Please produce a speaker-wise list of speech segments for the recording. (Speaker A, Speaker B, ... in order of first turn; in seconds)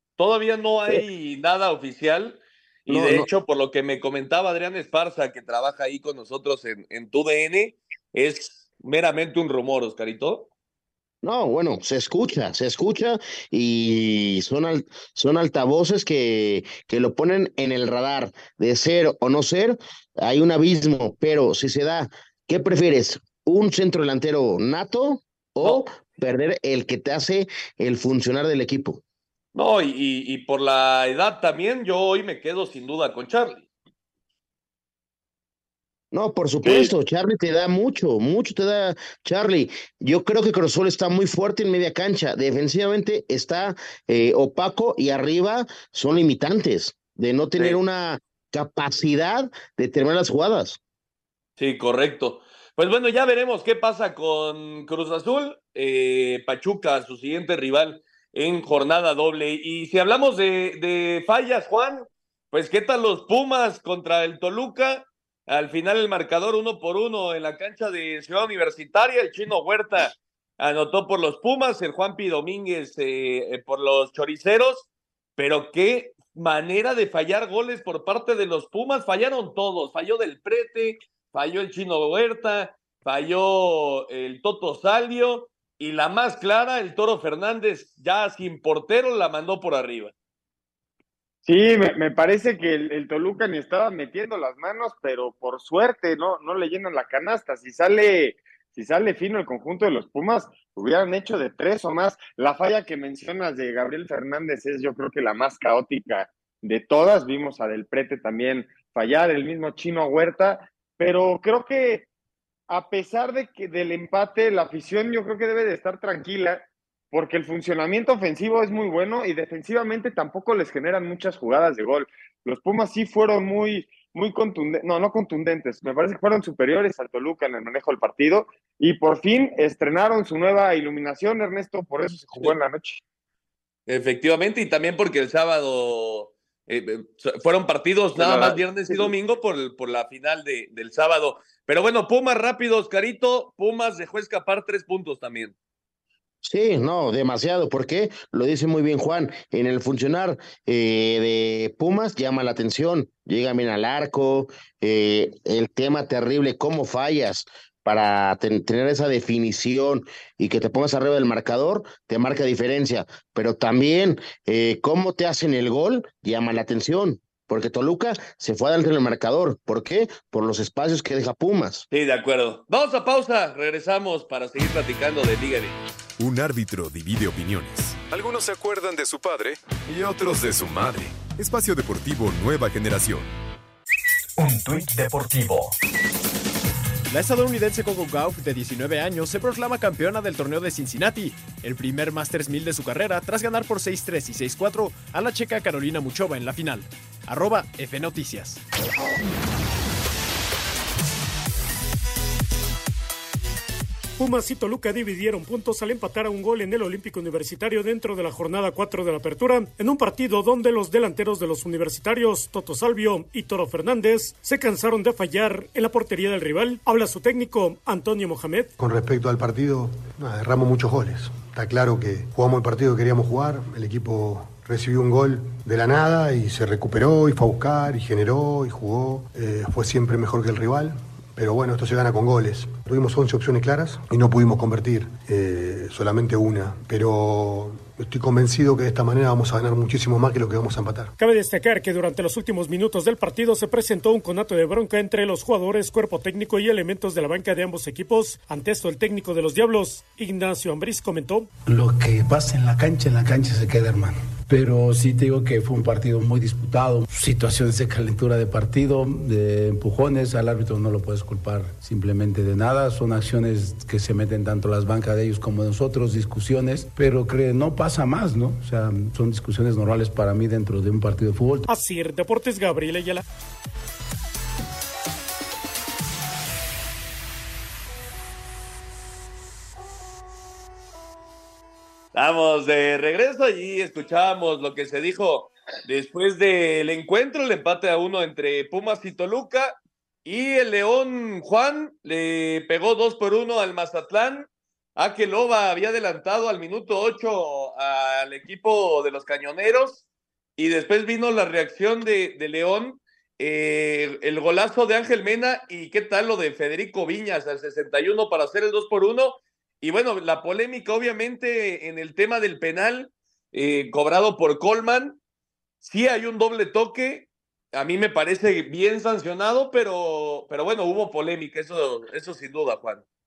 Speaker A: 0.2-10.5, 29.5-33.6, 51.6-90.1, 133.9-145.5, 171.9-175.8, 282.1-300.0, 300.6-315.2, 315.8-323.0
Speaker B: 2.9-3.3, 11.2-29.0, 36.1-50.8, 146.4-171.8
Speaker C: 36.6-36.9, 91.4-112.1, 112.7-133.0, 138.2-139.1
Speaker D: 176.2-183.3, 184.4-185.7
Speaker E: 187.1-198.6
Speaker F: 204.2-218.7, 241.2-251.5, 271.7-273.2
Speaker G: 218.8-241.1
Speaker H: 251.7-271.7